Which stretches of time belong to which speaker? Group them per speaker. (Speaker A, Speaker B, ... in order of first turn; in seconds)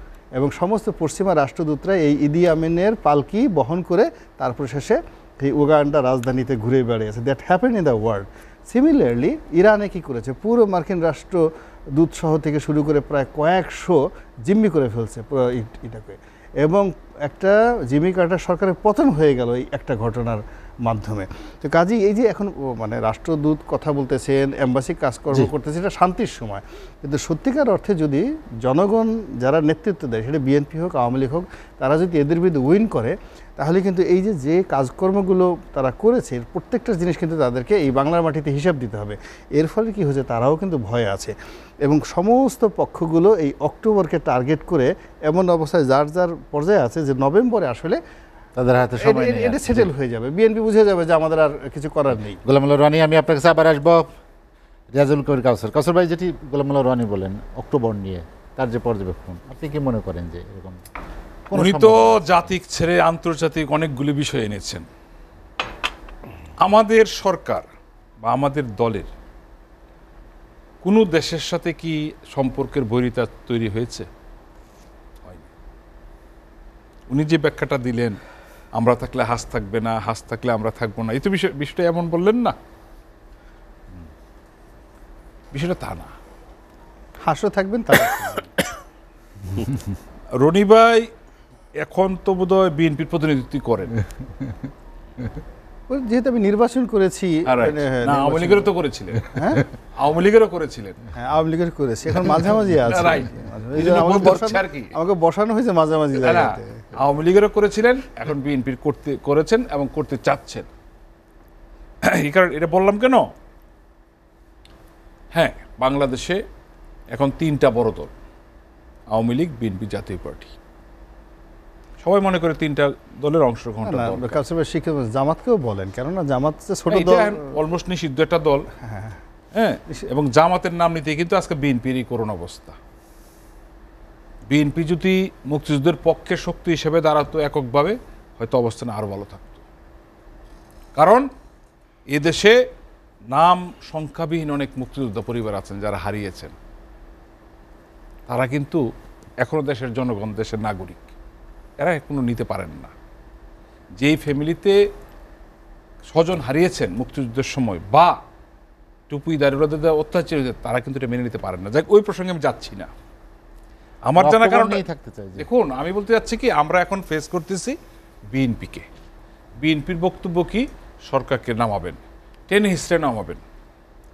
Speaker A: 0.3-48.0, 49.0-52.4, 87.2-88.5, 95.9-98.7, 99.3-99.6, 101.2-106.9, 123.8-127.5, 128.8-129.2
Speaker B: 48.5-49.9, 52.4-54.1, 54.9-60.8, 61.5-62.4, 164.2-165.4
Speaker C: 61.5-64.9, 66.6-67.6, 68.2-69.1, 70.8-74.1, 77.1-78.2, 78.7-82.5, 85.5-86.1, 90.4-91.1, 91.8-93.9, 97.5-99.3, 99.9-101.0, 102.8-104.9, 106.2-110.7, 112.0-113.3, 115.3-116.4, 117.1-118.1, 119.1-120.5, 122.0-124.3, 126.9-128.7, 129.5-132.8, 134.5-139.6, 140.9-141.3, 142.1-142.6, 143.3-146.5, 148.3-148.8, 149.4-151.1, 151.8-152.9, 153.9-154.8, 156.1-158.2, 159.1-162.9, 164.1-164.8, 165.4-167.8, 168.3-168.9, 169.6-173.4